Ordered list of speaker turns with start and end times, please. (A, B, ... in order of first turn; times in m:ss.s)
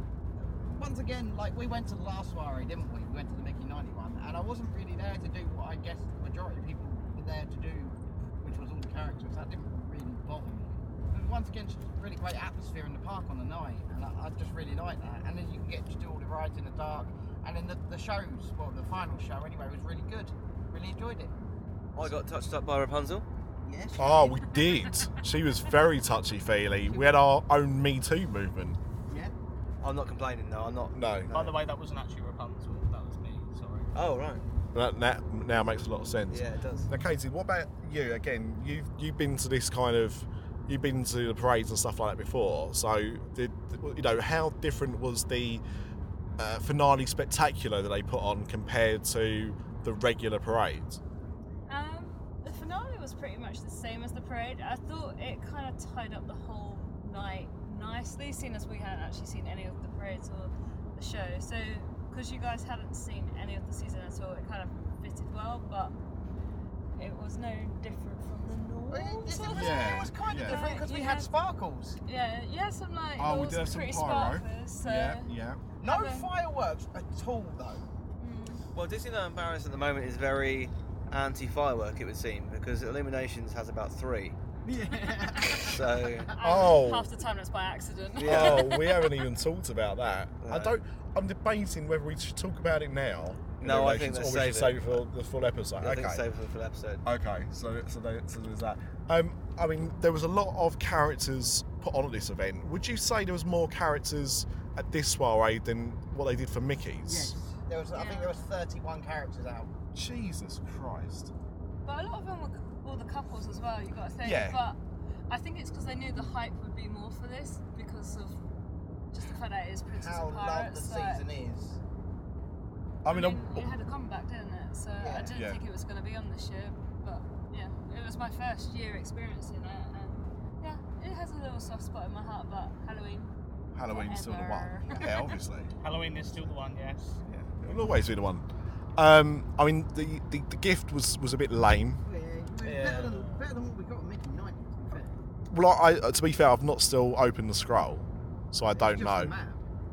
0:00.4-0:21.4 A
0:22.0-0:23.3 B
0:23.6-0:24.5 A
0:24.0-0:28.8 C
0:24.5-0:25.2 D
0:29.1-0:29.3 A
0:29.8-0:31.5 B
0:30.9-0:31.3 C
0:31.3-0:33.9 E
0:33.9-0:34.4 B
0:34.7-0:45.6 C
0:36.3-0:36.9 B
0:46.4-0:51.0 C
0:51.7-1:06.0 D
1:07.0-1:11.3 D
1:08.9-1:12.0 A
1:09.5-1:10.6 C
1:12.0-1:15.3 D
1:13.2-1:15.6 C
1:15.8-1:17.8 A
1:15.8-1:16.3 D
1:18.2-1:18.7 D
1:18.7-1:24.4 B
1:24.6-1:26.5 A
1:25.5-1:26.3 B
1:26.3-1:29.2 D
1:26.4-1:27.2 C
1:28.2-1:28.8 B
1:28.2-1:36.2 C
1:30.4-1:30.8 B
1:33.6-1:35.0 B
1:35.8-1:37.0 B
1:37.0-1:47.4 C
1:47.0-1:49.7 A
1:47.9-1:48.5 D
1:49.9-1:51.3 C
1:51.9-1:54.8 D
1:54.2-1:54.6 C
1:55.3-1:58.4 D
1:56.0-1:56.3 A
1:59.1-2:01.3 D
1:59.9-2:01.8 A
2:03.0-2:03.7 C
2:03.1-2:13.3 D
2:05.0-2:05.4 A
2:05.3-2:05.6 C
2:13.8-2:15.7 C
2:13.9-2:15.4 D
2:15.8-2:17.2 E
2:17.5-2:18.5 C
2:19.0-2:22.0 C
2:22.0-2:25.2 A
2:22.6-2:23.3 B
2:25.5-2:29.3 C
2:28.7-2:29.6 A